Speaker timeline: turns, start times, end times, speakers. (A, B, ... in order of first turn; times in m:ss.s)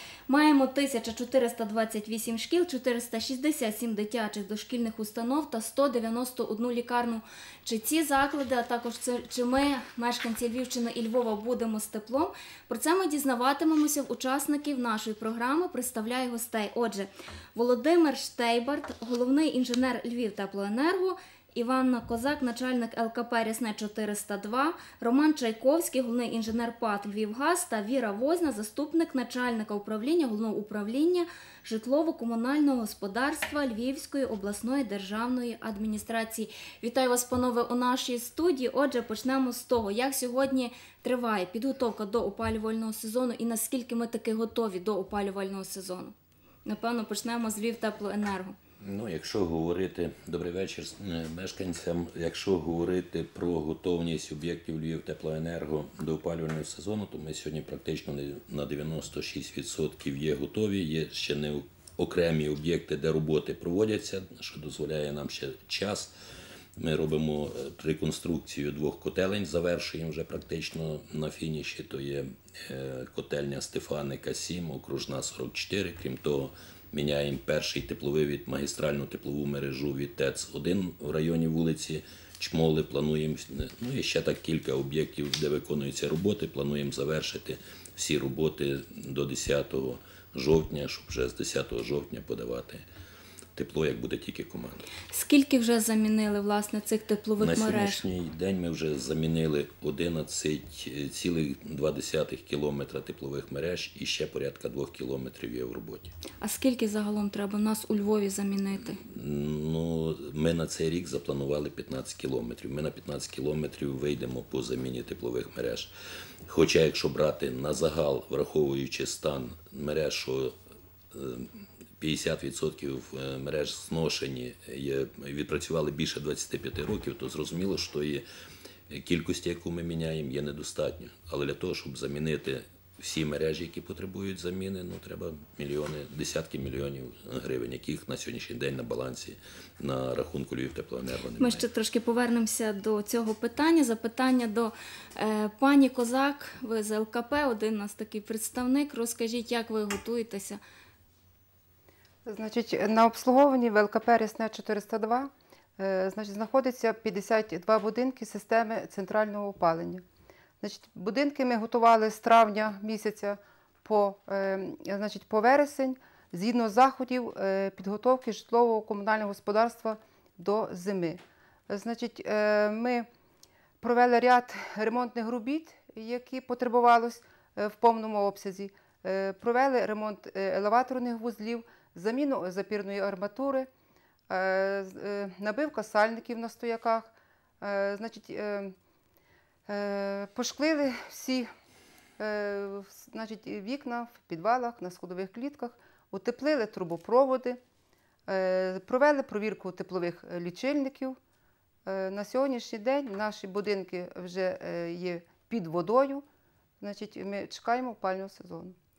0:00.3-0:46.1 A
0:46.6-0:48.6 A
0:48.8-1:06.1 B
1:06.8-1:32.8 B
1:33.6-1:34.9 B
1:35.1-1:38.0 A
1:37.4-1:46.1 B
1:46.4-1:49.0 A
1:49.0-1:55.9 B
1:56.5-2:00.5 B
2:01.1-2:08.2 B
2:08.9-2:21.6 B
2:21.4-2:30.6 A
2:32.2-2:40.0 C
2:40.6-2:53.1 C
2:53.8-3:03.7 C
3:04.3-3:08.7 C
3:09.7-3:11.5 C
3:12.2-3:17.6 C
3:18.3-3:21.2 C
3:21.8-3:26.2 C
3:26.8-3:28.8 C